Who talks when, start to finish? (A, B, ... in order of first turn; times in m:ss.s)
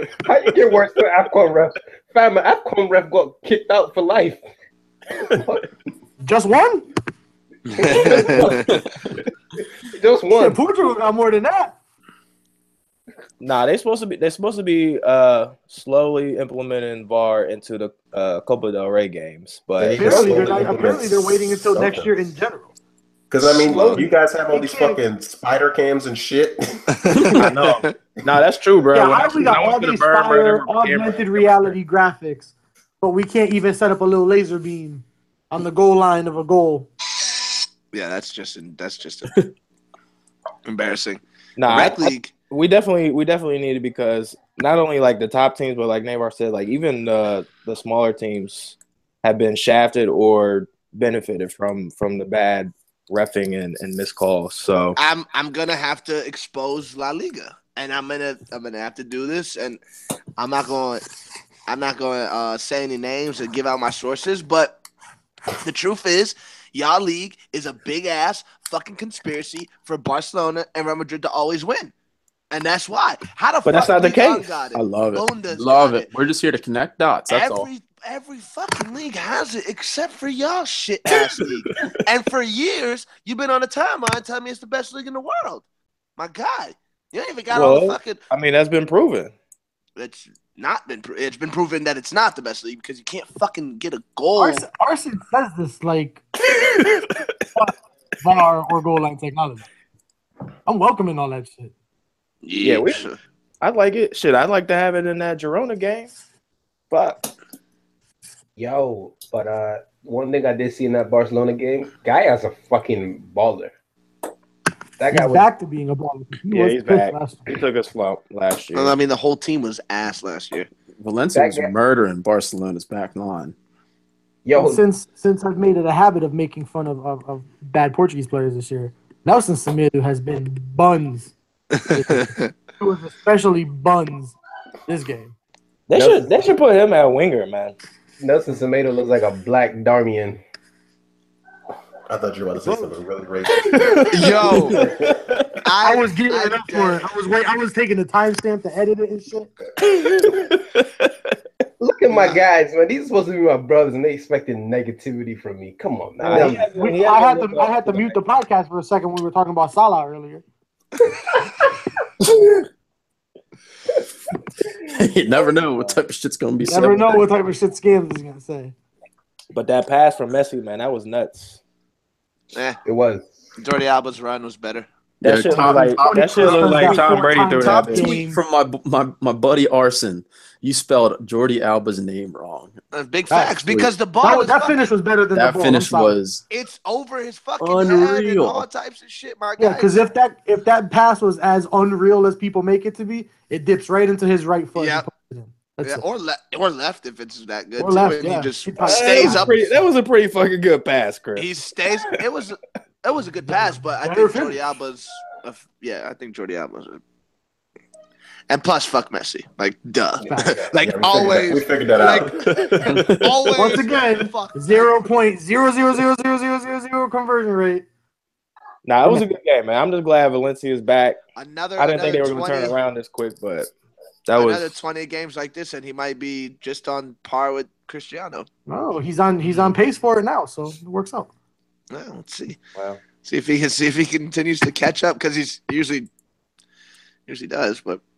0:00.2-0:04.4 A
0:05.2-0:05.7 A
0:06.2-0:06.9 B
0:07.8-0:08.7 C
0:07.8-0:08.3 A
0:09.9-0:10.6 A
0:10.4-0:11.8 B
0:13.4-0:20.2 D
0:19.8-0:22.2 E
0:20.0-0:22.7 B
0:20.1-0:20.8 A
0:23.3-0:27.8 E
0:23.7-0:24.0 D
0:24.5-0:25.0 B
0:27.0-0:27.9 C
0:27.5-0:31.8 D
0:28.9-0:36.9 B
0:37.9-0:39.3 C
0:40.7-0:42.3 C
0:41.6-0:55.0 D
0:55.0-0:59.8 C
1:00.4-1:01.0 C
1:01.7-1:04.8 C
1:05.6-1:11.9 C
1:12.5-1:16.1 C
1:13.6-1:14.7 D
1:14.8-1:17.7 F
1:17.3-1:25.6 C
1:21.1-1:21.8 D
1:26.2-1:28.2 C
1:27.5-1:29.3 D
1:30.0-1:34.6 C
1:34.3-1:36.2 B
1:37.5-1:39.7 B
1:40.7-1:41.7 B
1:42.4-1:43.2 C
1:42.6-1:43.0 D
1:43.6-1:46.1 D
1:46.9-1:47.3 D
1:48.6-1:53.7 A
1:55.0-1:55.5 A
1:55.1-1:57.5 B
1:56.5-1:59.0 D
1:58.7-2:00.7 C
2:01.0-2:03.5 F
2:01.3-2:01.7 A
2:04.4-2:04.8 A
2:04.6-2:14.4 B
2:11.8-2:12.5 C
2:14.9-2:15.3 B
2:15.9-2:17.8 D
2:16.0-2:16.3 A
2:18.2-2:20.4 A
2:22.1-2:24.4 E
2:22.6-2:22.9 B
2:24.1-2:24.8 C
2:24.8-2:25.3 D
2:25.6-2:27.1 C
2:25.8-2:29.5 B
2:29.9-2:31.1 D
2:31.8-2:36.7 A
2:36.2-2:38.2 D
2:36.4-2:40.4 B
2:44.9-2:47.2 F
2:46.6-2:48.7 B
2:49.5-2:51.6 D
2:52.5-2:52.8 C
2:52.8-2:53.3 A
2:53.6-2:54.9 C
2:55.2-3:02.8 F
2:55.2-2:58.2 D
2:55.5-2:58.4 B
3:02.9-3:04.8 C
3:03.3-3:03.6 B
3:04.2-3:06.2 B
3:05.3-3:06.4 F
3:06.5-3:10.0 C
3:07.6-3:08.7 F
3:09.6-3:16.0 B
3:14.8-3:15.1 C
3:15.8-3:19.7 C
3:17.8-3:19.6 B
3:18.8-3:21.5 D
3:21.4-3:27.0 C
3:23.5-3:24.6 B
3:28.5-3:35.0 C
3:30.3-3:30.6 B
3:30.7-3:32.5 E
3:32.5-3:33.2 D
3:33.6-3:37.9 B
3:38.8-3:41.2 D
3:41.4-3:42.8 C
3:41.8-3:43.7 D
3:44.3-3:44.8 D
3:44.4-3:48.5 C
3:48.7-3:51.3 B
3:51.9-3:52.6 C
3:53.2-3:56.1 C
3:57.3-3:58.0 C